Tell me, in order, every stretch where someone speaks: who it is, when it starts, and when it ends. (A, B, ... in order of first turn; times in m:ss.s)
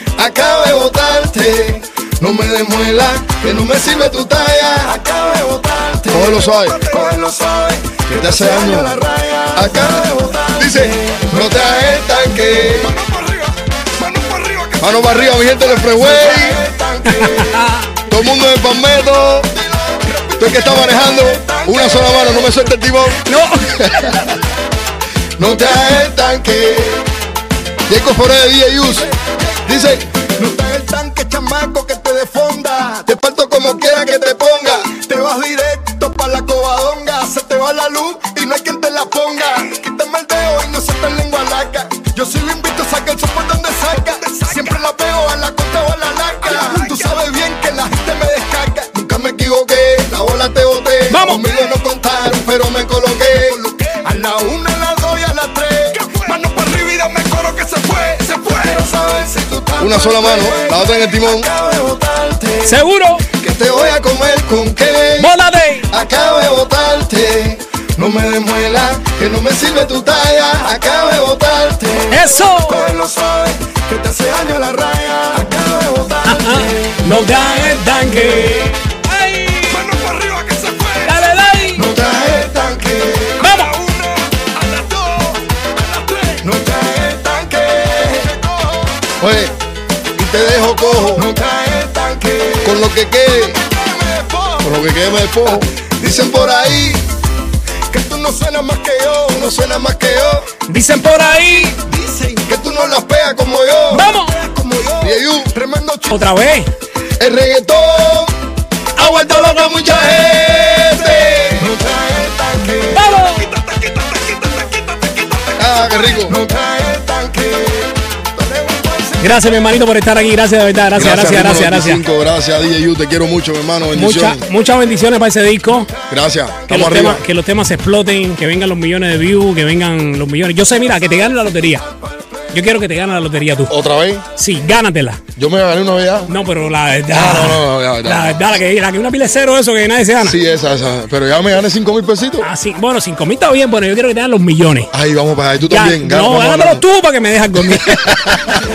0:00.2-0:17.6 A
0:06.1-0:06.9 B
0:08.1-0:09.0 B
0:09.5-0:11.9 B
0:14.8-0:16.6 B
0:17.2-0:17.9 C
0:18.1-0:19.5 B
0:19.5-0:22.7 A
0:20.4-0:24.3 B
0:23.3-0:23.8 C
0:25.4-0:27.1 A
0:25.4-0:25.7 B
0:27.9-0:29.1 B
0:29.0-1:02.8 A
0:29.6-0:30.0 B
0:34.3-0:34.7 B
0:51.1-0:51.4 C
0:59.8-1:01.5 B
1:02.6-1:03.2 C
1:03.3-1:05.3 A
1:05.2-1:05.9 C
1:05.9-1:17.8 A
1:12.1-1:12.9 C
1:16.2-1:19.8 C
1:19.7-1:21.1 A
1:21.0-1:21.8 C
1:21.8-1:25.4 A
1:23.4-1:23.7 C
1:25.9-1:28.4 A
1:29.2-1:29.6 B
1:30.2-1:31.3 B
1:31.0-1:34.8 A
1:32.6-1:33.6 B
1:34.6-1:35.7 B
1:35.5-1:37.0 A
1:37.9-1:40.5 A
1:40.7-1:41.7 C
1:41.7-1:46.3 A
1:43.9-1:44.3 C
1:45.0-1:45.5 B
1:46.1-1:46.7 C
1:47.2-1:48.3 A
1:49.0-1:50.0 C
1:49.0-1:51.4 B
1:49.0-1:54.5 A
1:52.9-1:53.5 C
1:55.6-1:56.4 B
1:56.2-1:59.6 A
1:59.2-2:02.0 C
2:01.0-2:04.5 B
2:03.9-2:05.9 C
2:06.1-2:07.2 B
2:06.7-2:11.8 C
2:12.5-2:13.7 C
2:13.7-2:14.3 B
2:14.4-2:15.2 C
2:15.4-2:16.3 B
2:16.3-2:20.4 C
2:17.1-2:18.5 B
2:20.2-2:22.5 B
2:22.4-2:24.9 C
2:24.9-2:26.8 B
2:25.7-2:28.5 C
2:27.6-2:28.6 B